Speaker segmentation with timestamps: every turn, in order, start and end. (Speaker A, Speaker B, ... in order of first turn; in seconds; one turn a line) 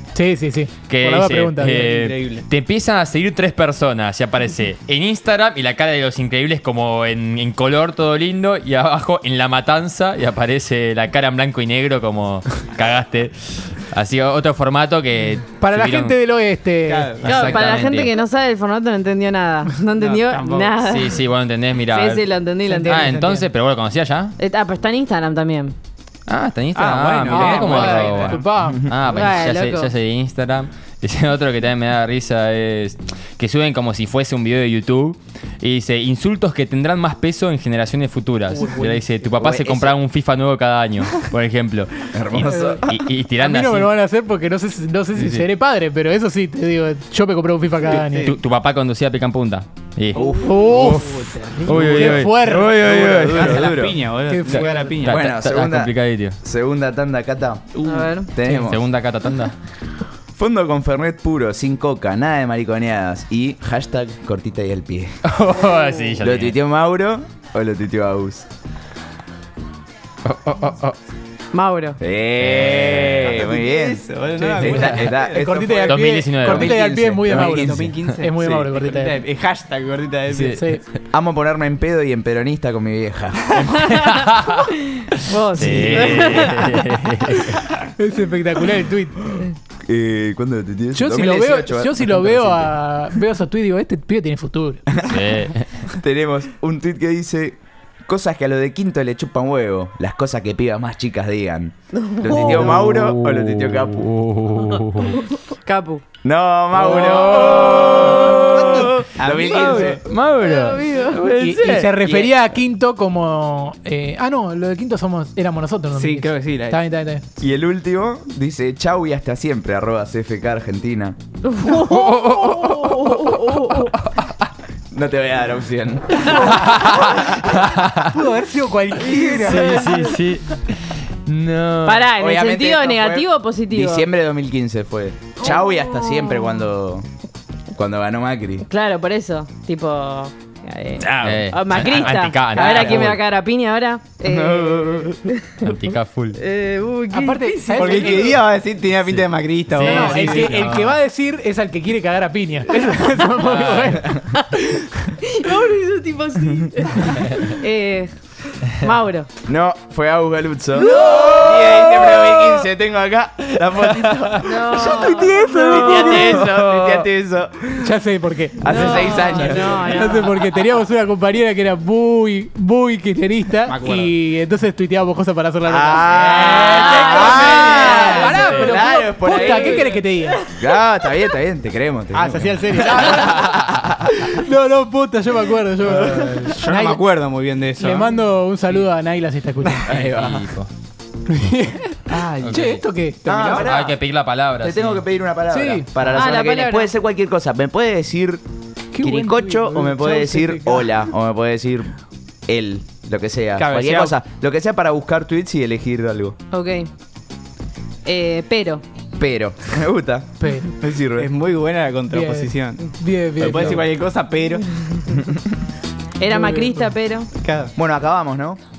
Speaker A: 0.1-2.1
Speaker B: 0.9-16.2
Speaker C: 1.9-2.4
Speaker A: 15.6-17.1
Speaker C: 16.9-17.8
Speaker B: 17.2-18.1
Speaker D: 17.2-21.2
Speaker C: 19.9-21.0
Speaker B: 20.9-22.3
Speaker D: 21.9-23.3
Speaker A: 22.7-23.4
Speaker B: 22.8-24.4
Speaker D: 24.4-25.7
Speaker B: 26.3-43.9
Speaker C: 26.7-28.4
Speaker A: 27.2-29.1
Speaker D: 27.3-27.7
Speaker E: 28.6-29.0
Speaker D: 29.1-29.9
Speaker A: 38.5-39.0
Speaker E: 39.4-40.0
Speaker E: 42.1-43.1
Speaker A: 42.5-42.8
Speaker A: 43.4-48.3
Speaker B: 45.1-45.4
Speaker C: 47.9-48.3
Speaker B: 47.9-53.8
Speaker A: 50.1-52.8
Speaker C: 50.1-52.3
Speaker E: 52.8-54.0
Speaker C: 53.1-55.2
Speaker A: 54.2-55.1
Speaker B: 54.5-56.4
Speaker E: 55.0-57.7
Speaker C: 57.7-58.2
Speaker D: 57.8-58.3
Speaker E: 58.2-58.8
Speaker B: 58.4-59.5
Speaker E: 60.3-65.2
Speaker B: 65.2-66.6
Speaker E: 66.2-68.5
Speaker B: 70.2-71.0
Speaker D: 71.5-72.0
Speaker E: 72.0-74.0
Speaker B: 72.4-73.4
Speaker C: 73.2-75.9
Speaker A: 74.3-79.2
Speaker E: 74.6-77.9
Speaker B: 75.9-76.7
Speaker C: 77.3-80.7
Speaker B: 80.3-80.6
Speaker A: 80.4-80.8
Speaker E: 81.1-83.8
Speaker B: 83.5-87.6
Speaker D: 83.8-86.9
Speaker A: 85.6-86.2
Speaker E: 85.6-86.4
Speaker A: 87.3-89.5
Speaker E: 89.8-92.7
Speaker A: 90.9-94.8
Speaker E: 94.9-95.3
Speaker B: 95.0-95.9
Speaker E: 95.9-104.1
Speaker D: 102.0-102.7
Speaker B: 102.3-105.2
Speaker D: 105.1-106.0
Speaker E: 106.2-110.0
Speaker B: 106.8-112.3
Speaker C: 106.9-107.8
Speaker D: 108.1-108.5
Speaker C: 108.5-110.0
Speaker D: 110.4-111.2
Speaker A: 111.4-117.2
Speaker C: 115.9-116.8
Speaker E: 117.4-121.2
Speaker D: 121.5-123.9
Speaker B: 121.7-124.2
Speaker E: 124.9-127.4
Speaker B: 126.4-128.1
Speaker A: 128.0-129.9
Speaker D: 129.1-130.1
Speaker B: 129.3-132.1
Speaker D: 131.8-134.1
Speaker E: 132.1-137.1
Speaker D: 135.4-136.6
Speaker E: 137.7-138.7
Speaker D: 138.7-145.6
Speaker E: 141.0-141.4
Speaker B: 141.2-143.2
Speaker C: 142.6-142.9
Speaker E: 144.2-145.2
Speaker B: 145.6-146.4
Speaker D: 146.4-148.3
Speaker A: 147.1-148.4
Speaker C: 147.7-150.9
Speaker B: 149.1-150.7
Speaker D: 149.8-150.5
Speaker A: 149.8-155.2
Speaker B: 153.4-154.0
Speaker D: 155.2-159.3
Speaker E: 159.4-167.9
Speaker D: 160.7-162.3
Speaker C: 161.2-162.7
Speaker D: 164.4-165.9
Speaker A: 164.7-166.5
Speaker C: 165.7-166.4
Speaker B: 166.3-167.1
Speaker A: 167.8-180.4
Speaker E: 168.6-169.8
Speaker D: 168.6-170.6
Speaker C: 173.6-174.1
Speaker E: 175.6-180.0
Speaker D: 176.3-180.7
Speaker B: 178.2-178.7
Speaker E: 180.5-183.9
Speaker A: 182.1-187.0
Speaker C: 182.3-182.8
Speaker C: 185.8-188.2
Speaker E: 185.9-186.5
Speaker A: 187.8-190.0
Speaker B: 189.8-190.7
Speaker E: 189.9-190.5
Speaker A: 191.3-193.3
Speaker C: 192.1-193.7
Speaker B: 192.4-192.8
Speaker E: 193.2-194.0
Speaker B: 193.5-195.0
Speaker E: 194.6-198.4
Speaker A: 195.5-196.2
Speaker D: 196.0-196.9
Speaker A: 198.9-200.9
Speaker E: 199.0-201.9
Speaker E: 202.5-206.4
Speaker C: 203.6-204.2
Speaker D: 206.5-206.9
Speaker D: 208.0-208.8
Speaker E: 209.2-211.3
Speaker A: 210.4-210.7
Speaker C: 211.2-212.8
Speaker A: 212.1-213.9
Speaker C: 213.4-214.6
Speaker D: 216.2-217.3
Speaker A: 216.3-216.9
Speaker C: 217.4-217.7
Speaker E: 217.8-218.6